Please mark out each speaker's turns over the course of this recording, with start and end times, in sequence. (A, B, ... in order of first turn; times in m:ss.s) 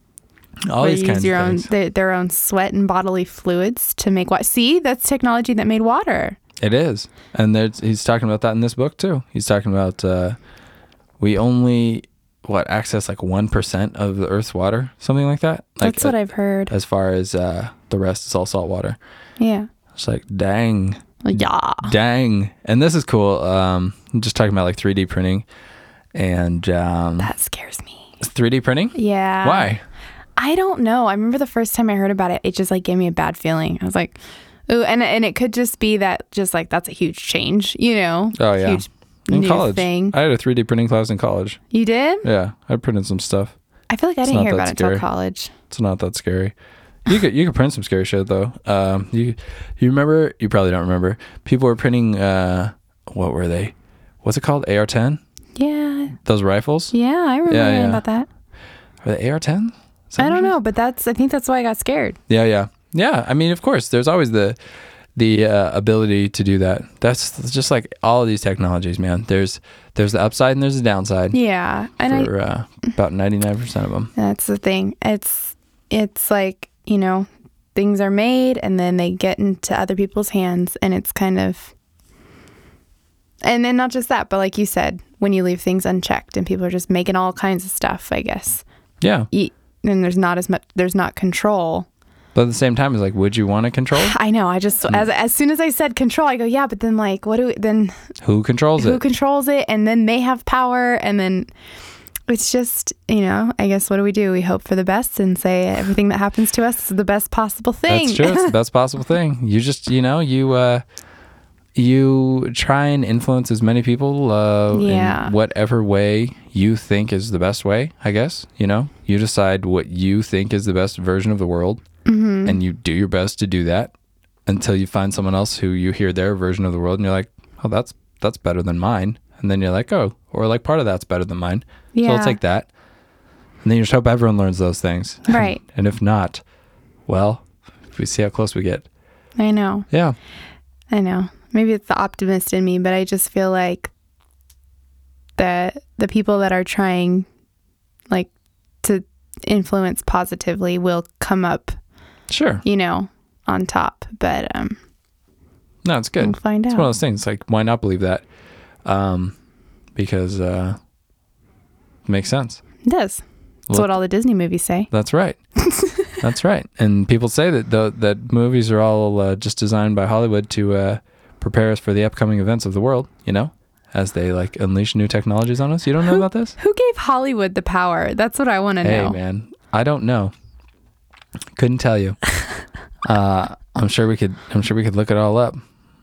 0:00.7-0:01.7 A
0:00.8-0:06.4 B
0:06.6-0:10.4 A
0:11.2-0:16.2 A
0:15.8-0:16.7 B
0:16.7-0:19.0 A
0:19.4-0:19.7 B
0:20.0-0:25.4 A
0:21.2-0:21.9 B
0:26.1-0:27.3 A
0:27.2-0:28.1 B
0:28.2-0:29.8 A
0:29.0-0:29.7 B
0:30.4-0:40.2 B
0:38.4-0:41.6 A
0:41.7-0:42.2 B
0:42.2-0:43.5 A
0:43.9-0:45.5 B
0:44.2-0:45.1 A
0:45.7-0:46.5 A
0:47.1-0:55.2 A
0:55.6-0:56.2 B
0:56.2-0:56.9 A
0:56.9-0:58.3 B
0:57.5-0:58.0 A
0:59.0-1:00.5 A
1:00.2-1:02.2 B
1:02.3-1:04.6 A
1:05.2-1:11.4 A
1:11.3-1:12.3 B
1:12.0-1:14.1 A
1:14.2-1:21.7 B
1:23.4-1:28.6 B
1:29.0-1:29.3 A
1:29.3-1:31.9 B
1:32.4-1:34.2 A
1:34.0-1:37.9 B
1:38.2-1:39.0 A
1:38.8-1:41.5 B
1:42.3-1:48.6 B
1:47.9-1:50.8 A
1:51.8-2:01.8 A
1:54.7-1:55.3 B
2:02.0-2:02.6 B
2:02.4-2:03.9 A
2:04.5-2:12.7 A
2:11.9-2:12.4 B
2:13.6-2:16.4 A
2:15.3-2:15.6 B
2:17.1-2:18.9 A
2:19.4-2:19.9 B
2:19.9-2:20.2 A
2:20.9-2:23.9 B
2:25.4-2:27.3 B
2:28.8-2:31.8 B
2:32.3-2:32.6 A
2:32.6-2:34.8 B
2:35.8-2:38.2 A
2:36.2-2:36.9 B
2:38.8-2:39.4 A
2:40.0-2:40.8 A
2:42.1-2:42.6 A
2:42.8-2:44.9 B
2:43.7-2:43.9 A
2:44.9-2:45.4 A
2:45.6-2:46.1 B
2:46.2-2:56.6 A
2:56.1-2:59.2 B
2:58.8-3:00.3 A
3:01.6-3:02.2 A
3:03.0-3:05.6 A